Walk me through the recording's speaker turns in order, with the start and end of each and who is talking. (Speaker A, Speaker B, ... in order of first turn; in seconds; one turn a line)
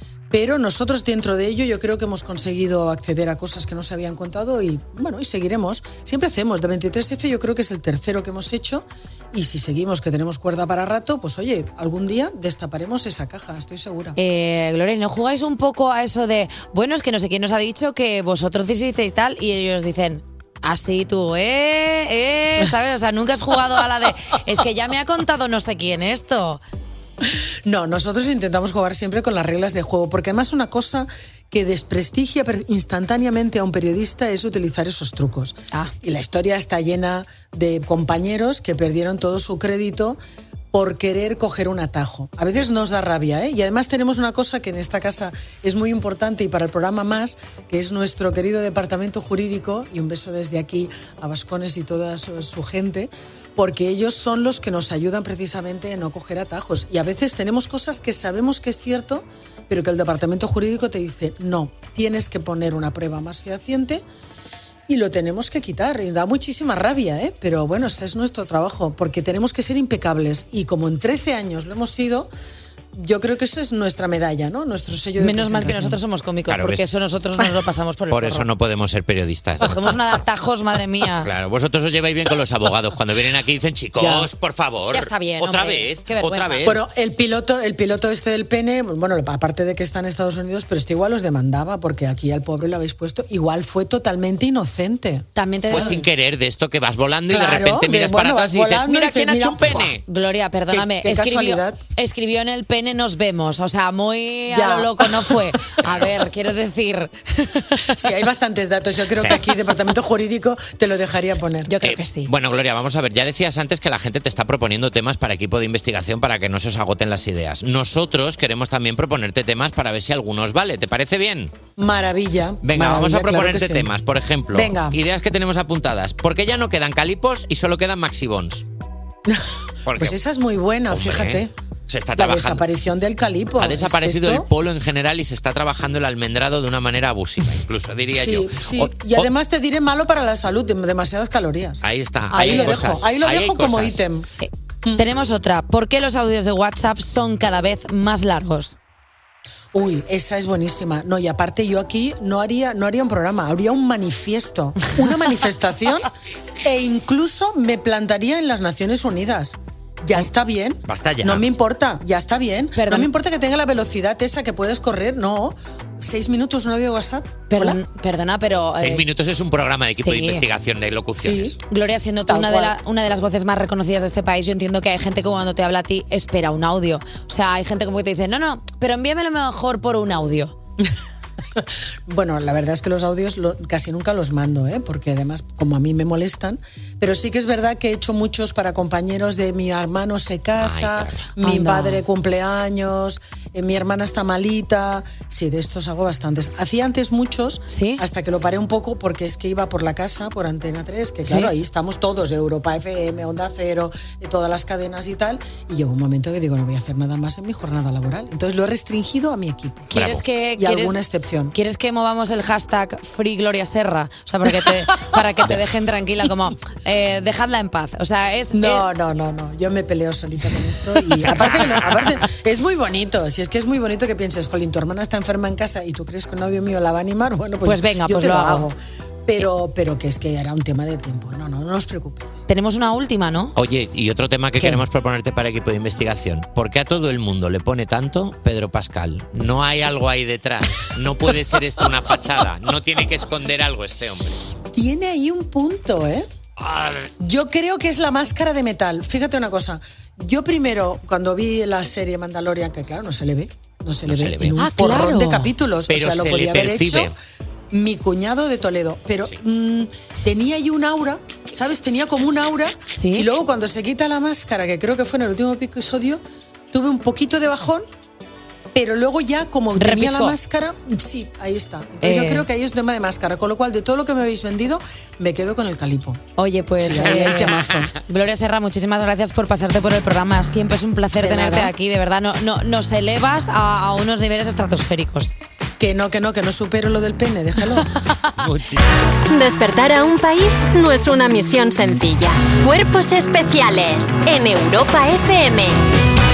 Speaker A: 0.3-14.2
Speaker B: 14.2-26.6
Speaker A: 27.6-40.2
Speaker A: 40.7-64.0
Speaker A: 64.9-72.3
Speaker A: 72.9-76.0
Speaker B: 75.2-78.4
Speaker C: 76.5-76.8
Speaker C: 78.1-79.9
Speaker B: 79.6-81.3
Speaker C: 81.2-86.8
Speaker A: 84.0-84.3
Speaker B: 84.9-86.7
Speaker A: 86.6-96.1
Speaker B: 95.3-96.0
Speaker C: 95.7-100.0
Speaker A: 97.3-99.9
Speaker B: 100.1-107.8
Speaker A: 100.7-101.8
Speaker A: 104.5-105.9
Speaker C: 105.8-106.1
Speaker A: 107.9-111.7
Speaker B: 111.7-112.3
Speaker C: 111.8-121.5
Speaker A: 121.8-123.9
Speaker C: 122.6-128.6
Speaker A: 124.5-125.0
Speaker A: 129.2-131.5
Speaker C: 129.9-130.2
Speaker C: 130.9-132.6
Speaker A: 132.2-134.5
Speaker C: 133.6-139.3
Speaker A: 138.1-144.3
Speaker C: 141.8-144.0
Speaker B: 142.3-142.9
Speaker B: 144.4-148.7
Speaker A: 149.7-156.1
Speaker A: 156.6-167.8
Speaker C: 160.9-161.5
Speaker B: 162.8-163.1
Speaker B: 167.5-169.0
Speaker C: 168.8-171.6
Speaker B: 170.0-170.4
Speaker A: 171.2-171.6
Speaker B: 171.7-180.5
Speaker A: 172.3-172.7
Speaker A: 181.6-209.9
Speaker C: 190.6-191.3
Speaker B: 191.4-192.0
Speaker B: 197.7-198.0
Speaker B: 201.2-201.5
Speaker B: 209.9-211.0
Speaker C: 209.9-210.2
Speaker A: 210.6-211.5
Speaker B: 211.5-218.8
Speaker A: 214.5-215.2
Speaker A: 218.5-232.4
Speaker C: 221.3-222.0
Speaker B: 227.6-228.7
Speaker B: 232.5-233.5
Speaker C: 233.6-244.4
Speaker A: 244.6-246.3
Speaker C: 246.6-247.1
Speaker A: 247.2-257.1
Speaker C: 254.1-254.6
Speaker B: 254.6-255.5
Speaker C: 255.9-257.1
Speaker A: 257.7-267.9
Speaker B: 262.9-263.3
Speaker A: 268.7-276.2
Speaker B: 269.8-270.4
Speaker B: 272.0-272.4
Speaker B: 276.4-285.3
Speaker A: 276.8-277.9
Speaker C: 277.0-277.9
Speaker A: 281.2-281.7
Speaker A: 285.8-287.9
Speaker C: 288.4-288.9
Speaker D: 289.3-295.8